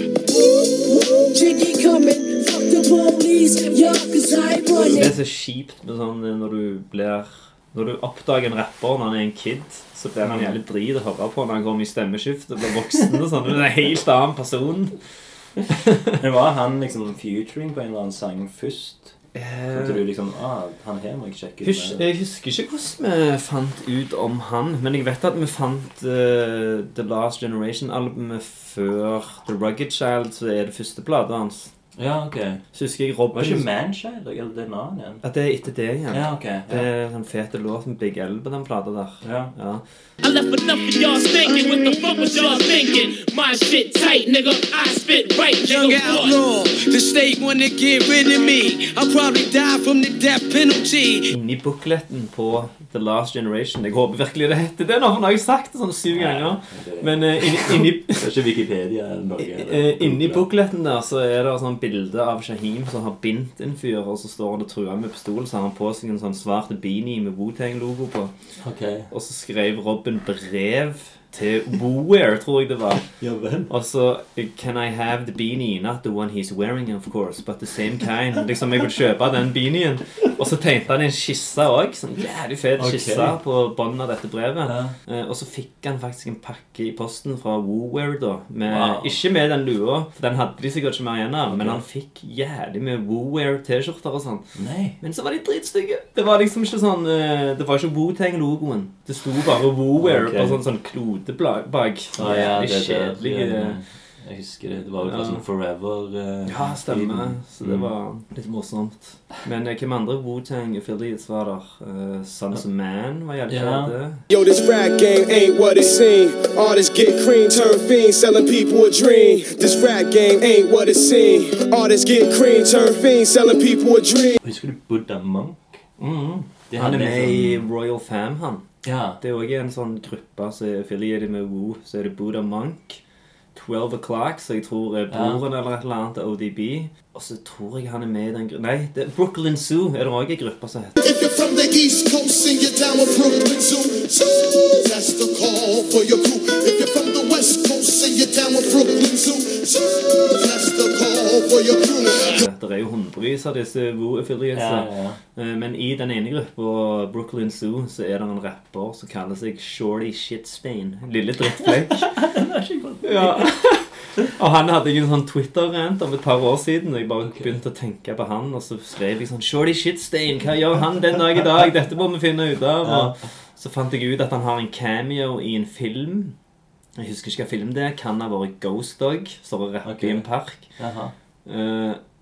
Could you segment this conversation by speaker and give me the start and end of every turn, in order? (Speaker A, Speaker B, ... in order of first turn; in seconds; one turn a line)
Speaker A: 0.3-5.1
Speaker B: 4.8-14.9
Speaker C: 10.2-10.6
Speaker B: 15.7-16.2
Speaker C: 16.2-19.2
Speaker B: 19.3-20.1
Speaker C: 19.7-22.1
Speaker B: 21.6-31.7
Speaker C: 32.0-32.6
Speaker B: 32.7-33.7
Speaker C: 33.3-35.2
Speaker B: 35.2-39.8
Speaker C: 36.1-36.9
Speaker C: 39.2-39.5
Speaker D: 40.5-45.1
Speaker E: 45.6-51.3
Speaker B: 51.3-58.2
Speaker C: 56.1-60.5
Speaker B: 59.4-68.3
Speaker C: 68.6-69.1
Speaker B: 69.1-73.1
Speaker C: 73.2-73.7
Speaker B: 73.7-103.8
Speaker C: 82.8-83.4
Speaker C: 84.7-85.0
Speaker C: 88.7-89.2
Speaker C: 91.5-91.8
Speaker C: 94.5-95.0
Speaker C: 100.0-100.6
Speaker C: 102.2-107.9
Speaker B: 105.0-105.4
Speaker B: 106.5-114.2
Speaker C: 113.5-114.0
Speaker F: 114.3-124.4
Speaker C: 124.4-125.9
Speaker B: 126.0-128.7
Speaker C: 126.7-127.7
Speaker C: 128.8-129.2
Speaker B: 129.2-133.0
Speaker B: 133.6-141.0
Speaker C: 135.1-135.4
Speaker G: 141.0-152.4
Speaker B: 152.4-162.1
Speaker C: 154.5-155.2
Speaker C: 161.5-163.6
Speaker B: 163.0-176.4
Speaker C: 167.2-167.6
Speaker C: 172.8-173.2
Speaker B: 177.0-180.7
Speaker C: 179.8-181.1
Speaker B: 181.5-182.0